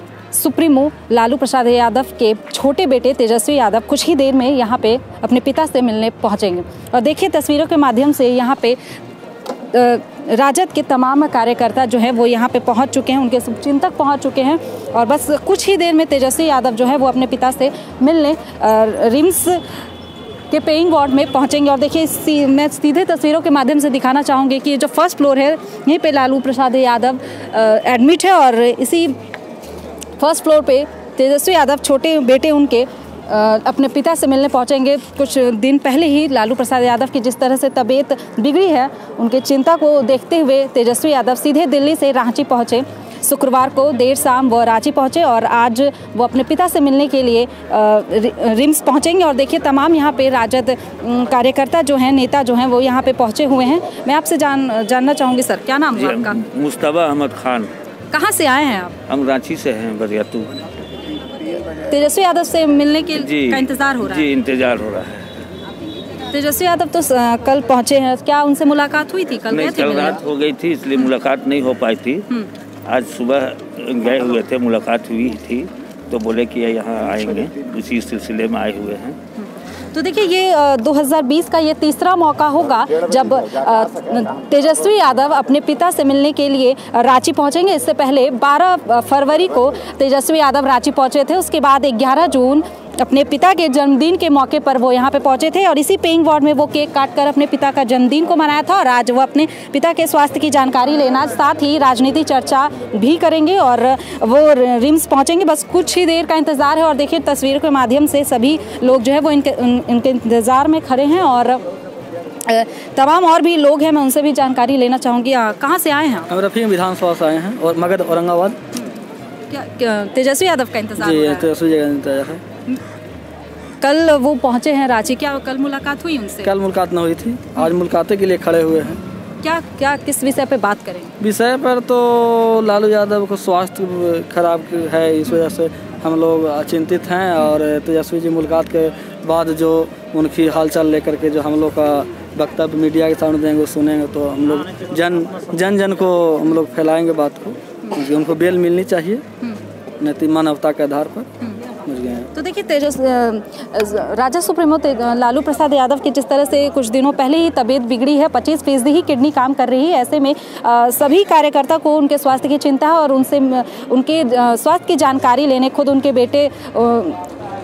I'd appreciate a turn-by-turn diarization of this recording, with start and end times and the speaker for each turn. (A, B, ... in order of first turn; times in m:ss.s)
0:00.3-0:08.8 A
0:09.6-0:19.6 A
0:20.5-0:29.2 A
0:30.2-0:56.4 A
0:56.0-0:57.7 B
0:58.1-0:58.9 A
0:59.1-1:00.5 B
1:01.9-1:04.3 A
1:03.2-1:05.3 B
1:06.3-1:10.2 A
1:09.5-1:12.2 B
1:12.9-1:19.2 B
1:19.4-1:51.6 A
1:52.5-1:56.3 A
1:56.3-1:58.6 C
1:59.5-2:01.5 A
2:01.0-2:02.4 C
2:03.8-2:06.5 A
2:06.4-2:09.0 C
2:09.4-2:11.1 A
2:11.2-2:29.2 C
2:30.0-2:31.3 C
2:31.8-2:32.3 C
2:32.3-2:47.3 A